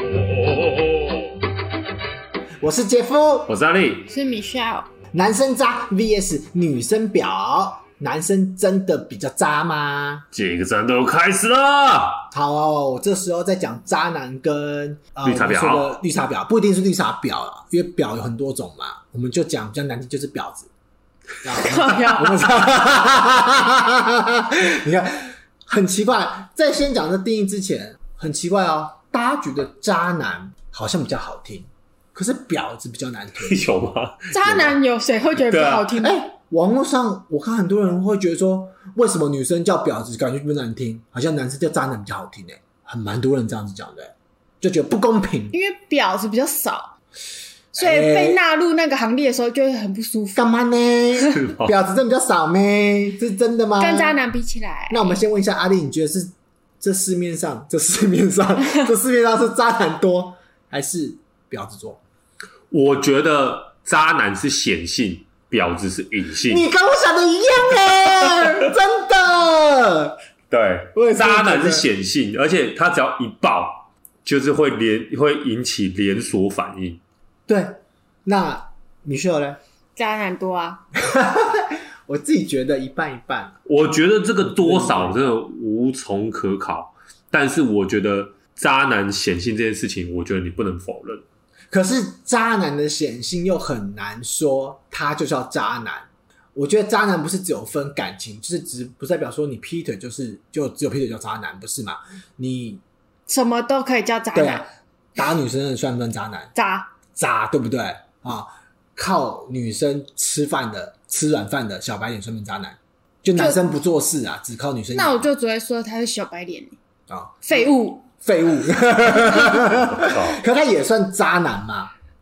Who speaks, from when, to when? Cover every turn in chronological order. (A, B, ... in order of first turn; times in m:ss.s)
0:00.6-0:00.8 A
0:02.6-0:03.5 B
0:03.5-0:04.1 A
0:04.1-0:04.9 C
0:05.1-0:10.3 B
0:10.3-0:12.2 A
0:12.3-0:20.7 B
0:15.2-0:16.0 A
0:21.4-0:33.7 B
0:21.5-0:22.4 C
0:33.4-0:34.3 A
0:34.3-0:36.2 C
0:34.4-0:34.8 B
0:35.5-0:35.9 A
0:36.0-0:45.6 B
0:45.5-0:46.9 C
0:47.7-0:50.4 C
0:47.8-0:48.4 B
0:50.4-0:54.2 B
0:51.3-0:51.8 A
0:53.8-0:55.2 C
0:54.9-1:02.0 B
1:02.7-1:06.7 A
1:06.5-1:10.2 B
1:10.5-1:17.0 A
1:11.0-1:11.9 B
1:17.5-1:19.6 B
1:20.0-1:20.8 C
1:21.0-1:23.6 B
1:23.7-1:31.2 A
1:24.4-1:25.4 B
1:31.7-1:42.8 B
1:43.3-1:44.7 C
1:44.3-1:46.5 B
1:46.6-1:47.0 C
1:47.2-1:55.2 B
1:53.4-1:53.6 C
1:54.9-1:56.8 C
1:57.1-1:57.6 B
1:57.4-1:58.1 C
1:58.2-2:01.9 B
1:59.2-1:59.7 C
1:59.7-2:00.4 A